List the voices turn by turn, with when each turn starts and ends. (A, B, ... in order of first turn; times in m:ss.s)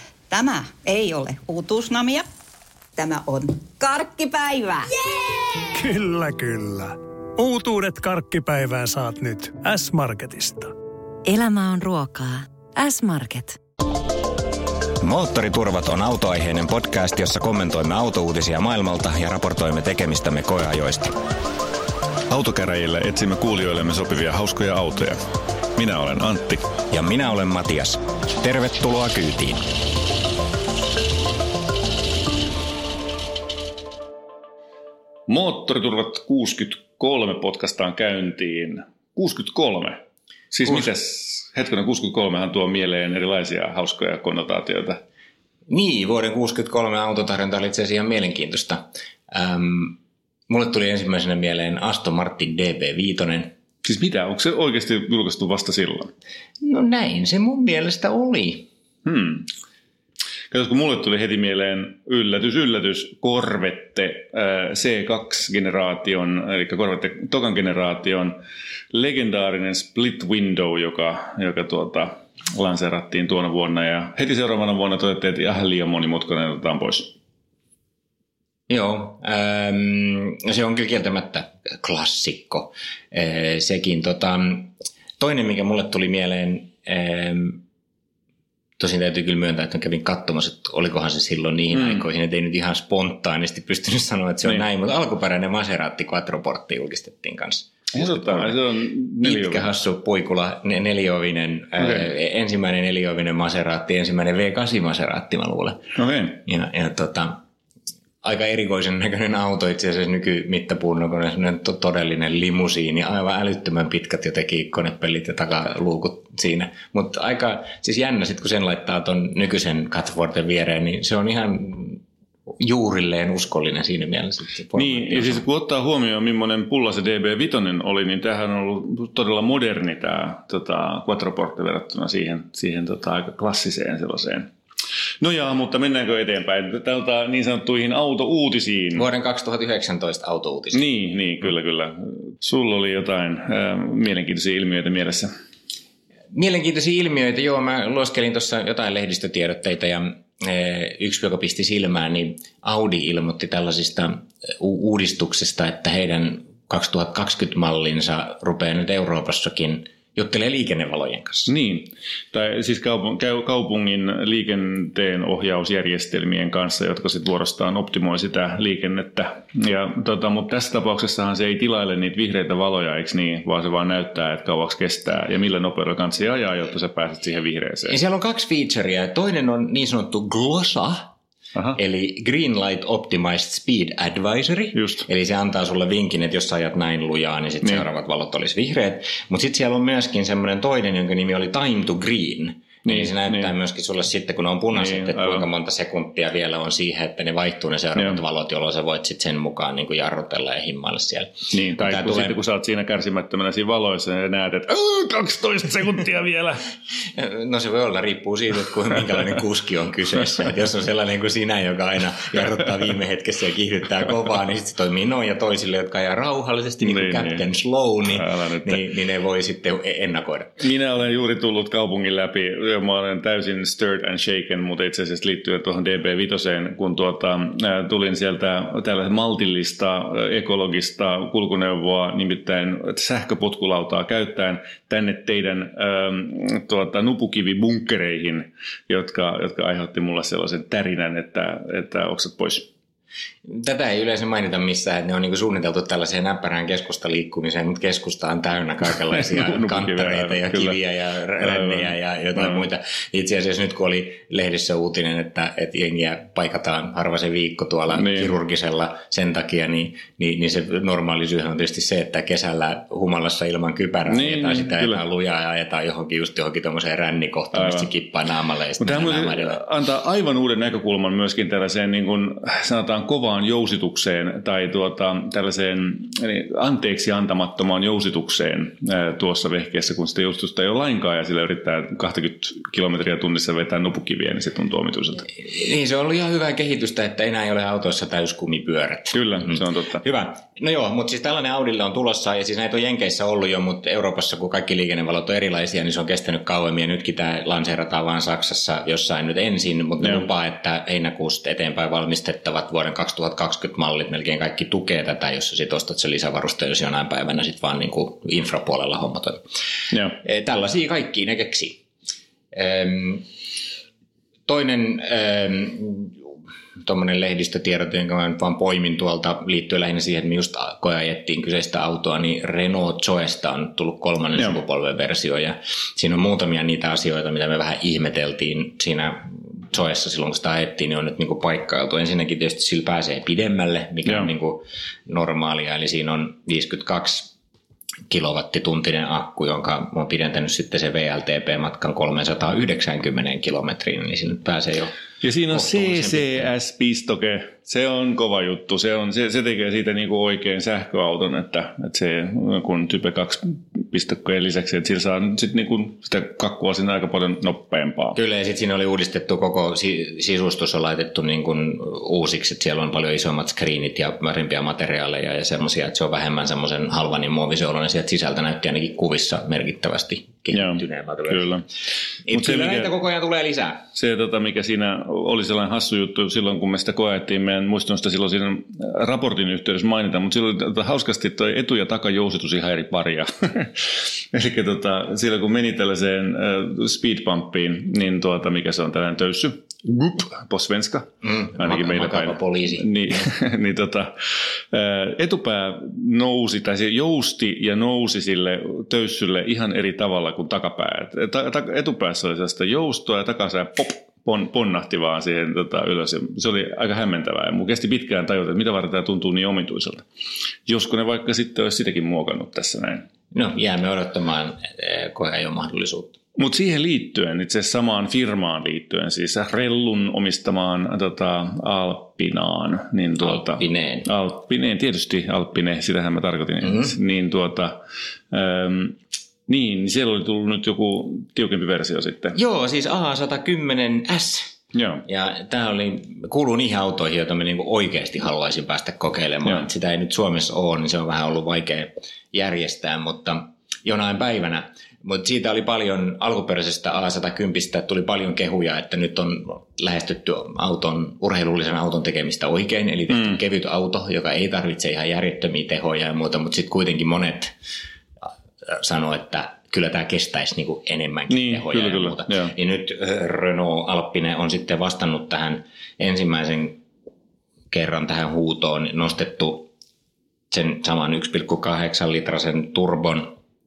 0:00.3-0:02.3 A
0:03.0-0:05.7 A
0:05.8-0:10.7 B
0:11.3-0:13.6 C
0:15.0-0:21.2 D
0:22.3-0:25.2 E
0:25.8-0:26.7 E
0:26.9-0:29.6 D
0:35.3-0:40.0 E
0:40.5-0:45.0 E
0:45.7-0:53.5 D
0:53.8-0:56.1 E
0:56.6-0:58.7 D
0:59.0-0:59.5 E
1:00.5-1:08.4 E
1:08.9-1:17.1 E
1:18.7-1:27.6 D
1:28.8-1:38.6 D
1:31.7-1:32.0 E
1:37.9-1:39.7 E
1:39.2-1:47.4 D
1:41.8-1:42.1 E
1:46.0-1:46.4 E
1:48.2-2:02.0 D
2:02.6-2:05.4 D
2:04.7-2:14.5 E
2:15.2-2:19.1 E
2:19.0-2:20.8 D
2:20.7-2:25.3 E
2:26.3-2:41.5 D
2:41.5-2:58.0 E
2:57.9-3:01.1 D
3:01.8-3:22.4 D
3:04.8-3:05.0 E
3:12.8-3:13.5 E
3:14.7-3:15.5 E
3:21.5-3:26.7 E
3:27.1-3:40.6 D
3:36.8-3:37.4 E
3:38.0-3:38.8 E
3:40.6-4:02.7 E
4:03.5-4:29.6 D
4:09.1-4:10.8 E
4:11.4-4:12.6 E
4:17.9-4:18.4 E
4:24.1-4:25.0 E
4:27.5-4:27.9 E
4:28.8-4:45.3 E
4:45.4-5:09.4 D
4:49.1-4:50.0 E
5:09.9-5:10.2 E
5:10.2-5:11.8 D
5:12.5-5:13.3 D
5:14.5-5:16.2 D
5:16.8-5:37.4 D
5:38.1-5:45.0 D
5:45.2-5:58.2 E
5:45.5-5:46.5 D
5:58.2-6:11.6 D
6:10.5-6:11.6 E
6:12.2-6:13.9 D
6:12.3-6:12.9 E
6:13.9-6:34.1 E
6:31.2-6:33.3 D
6:34.7-6:50.0 E
6:50.7-6:53.1 E
6:53.3-6:56.2 D
6:56.4-7:07.8 E
7:03.2-7:04.1 D
7:08.3-7:12.4 E
7:12.4-7:37.5 D
7:14.7-7:15.0 E
7:33.1-7:33.4 E
7:38.7-7:46.8 D
7:41.3-7:42.5 E
7:47.7-7:49.7 D
7:50.5-7:53.4 D